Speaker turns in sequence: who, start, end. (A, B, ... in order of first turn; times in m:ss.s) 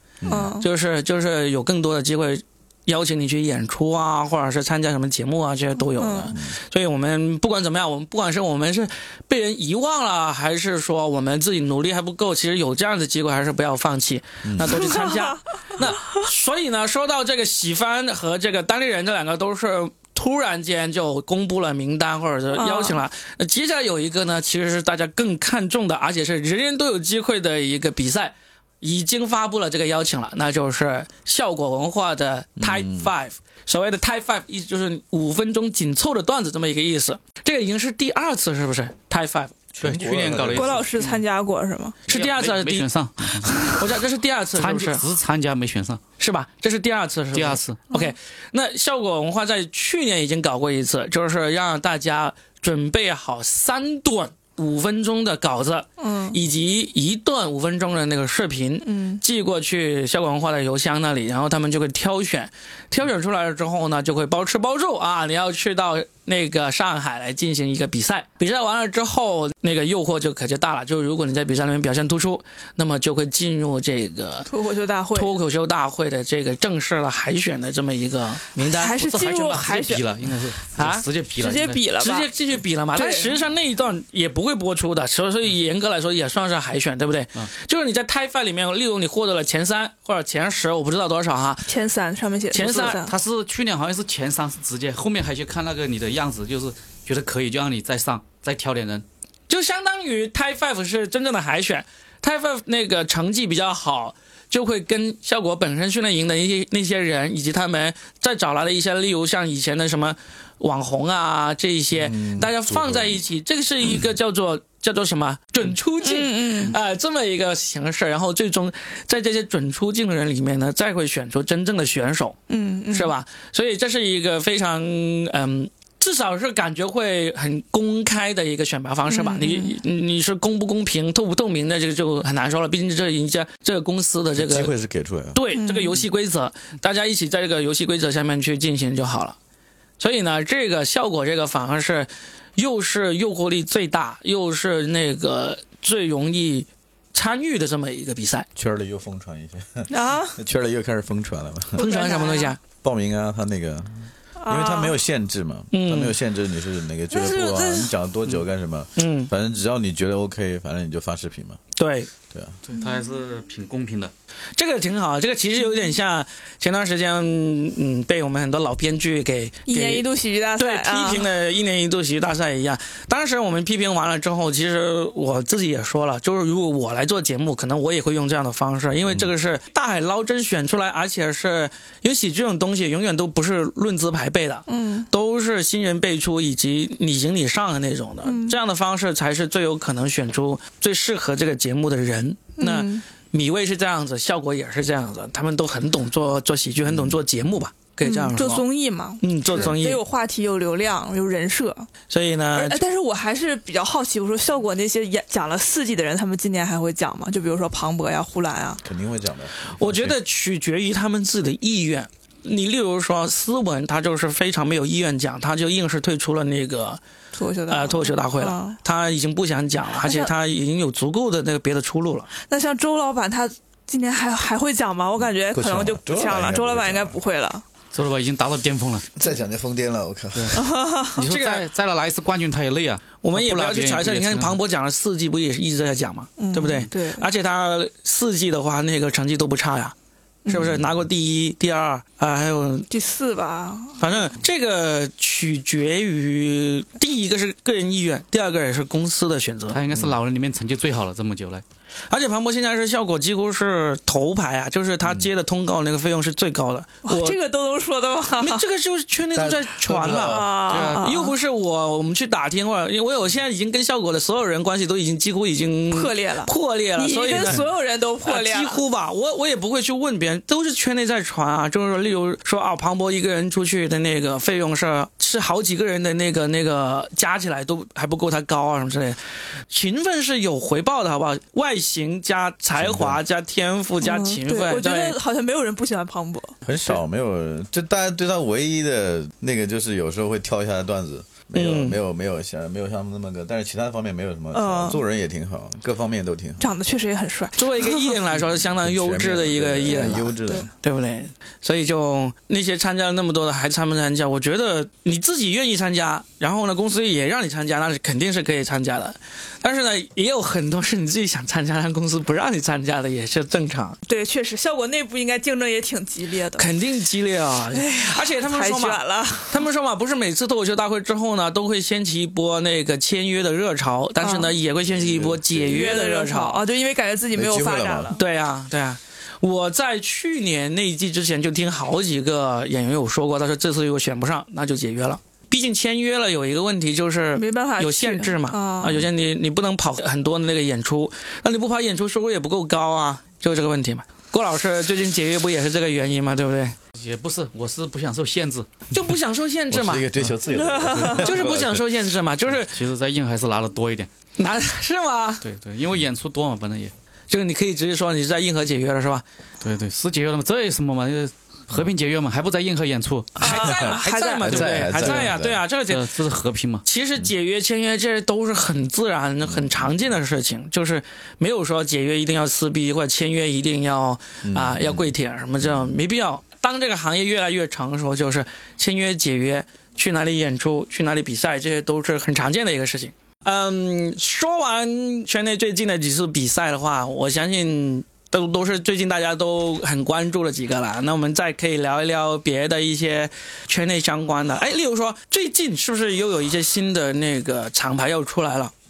0:00.2-0:00.6 A
0:00.3-0:00.7 B
0:00.6-0:39.6 C
0:06.0-0:06.3 B
0:06.2-0:06.5 A
0:14.4-0:14.9 A
0:14.6-0:15.4 B
0:22.6-0:23.0 B
0:32.6-0:33.1 A
0:39.8-0:40.8 A
0:39.8-0:41.2 D
0:40.5-0:42.0 B
0:42.1-0:42.9 C
0:42.1-0:43.8 D
0:43.6-0:45.0 C
0:44.6-0:46.0 D
0:46.2-1:14.5 C
0:47.3-0:47.8 D
0:56.0-0:56.4 B
0:58.8-0:59.2 B
1:14.5-1:15.4 B
1:15.1-1:19.0 C
1:18.6-1:20.0 B
1:19.0-1:21.8 D
1:20.8-1:21.0 C
1:21.4-1:22.3 B
1:22.0-1:31.7 C
1:22.9-1:23.3 B
1:31.7-1:33.1 B
1:32.5-1:33.0 C
1:32.6-1:39.0 D
1:39.5-2:02.4 C
1:52.0-1:53.2 A
1:56.0-1:56.8 B
2:02.5-2:03.1 B
2:02.9-2:14.7 C
2:09.1-2:09.8 B
2:14.4-2:15.4 A
2:15.3-2:19.4 C
2:15.5-2:16.0 B
2:20.0-2:28.5 C
2:28.6-2:31.9 A
2:29.9-2:30.4 B
2:31.8-2:32.5 B
2:31.8-2:32.6 C
2:32.8-2:41.6 A
2:34.4-2:34.9 B
2:35.7-2:36.2 C
2:37.1-2:37.9 B
2:39.0-2:39.3 C
2:41.8-2:42.1 C
2:42.3-2:42.6 A
2:42.7-2:44.1 D
2:44.6-2:50.0 C
2:49.7-2:51.3 B
2:50.6-3:18.6 C
3:04.7-3:05.1 B
3:08.2-3:08.6 B
3:12.6-3:13.0 B
3:16.9-3:17.2 A
3:18.0-3:21.9 B
3:19.2-3:20.0 C
3:22.1-3:22.8 C
3:22.5-3:28.8 B
3:28.8-3:30.2 A
3:29.7-3:37.0 C
3:37.3-3:38.8 B
3:37.7-3:42.3 C
3:40.0-3:40.3 B
3:42.4-3:47.6 B
3:45.2-3:47.2 A
3:47.9-3:49.1 D
3:49.2-3:50.7 A
3:50.3-3:50.6 D
3:50.5-3:51.2 B
3:51.1-3:54.6 D
3:51.2-3:51.6 C
3:53.2-3:59.9 C
3:56.4-3:57.3 B
4:00.5-4:02.9 C
4:00.5-4:00.9 A
4:02.9-4:04.2 B
4:04.0-4:09.8 C
4:09.7-4:11.6 D
4:12.1-4:17.4 C
4:17.0-4:18.6 B
4:18.4-4:27.6 C
4:19.3-4:20.6 A
4:20.2-4:21.3 B
4:20.7-4:21.1 D
4:25.9-4:28.8 B
4:28.2-4:39.2 C
4:39.7-4:45.2 C
4:42.8-4:43.2 A
4:44.0-4:46.9 B
4:46.6-4:56.7 A
4:51.5-4:52.0 C
4:54.5-4:55.0 B
4:56.6-4:58.1 B
4:57.6-5:14.0 C
4:58.3-5:00.7 A
5:00.1-5:00.7 B
5:14.0-5:16.7 B
5:16.6-5:26.6 C
5:17.7-5:19.6 B
5:24.2-5:24.5 B
5:24.8-5:26.0 A
5:25.7-5:28.2 B
5:27.3-5:28.2 A
5:28.1-5:46.8 C
5:37.3-5:39.0 B
5:46.9-5:48.8 D
5:48.9-5:50.0 C
5:49.7-5:51.8 A
5:50.5-5:51.2 B
5:51.2-5:52.8 C
5:52.6-5:54.1 D
5:54.4-5:55.4 C
5:55.4-5:56.9 D
5:57.3-5:59.2 C
5:59.6-6:03.7 D
6:03.4-6:04.5 B
6:03.4-6:06.1 C
6:03.6-6:05.6 A
6:04.4-6:05.3 D
6:05.9-6:06.8 D
6:06.8-6:38.7 C
6:09.4-6:09.9 A
6:14.4-6:15.1 A
6:15.6-6:15.9 A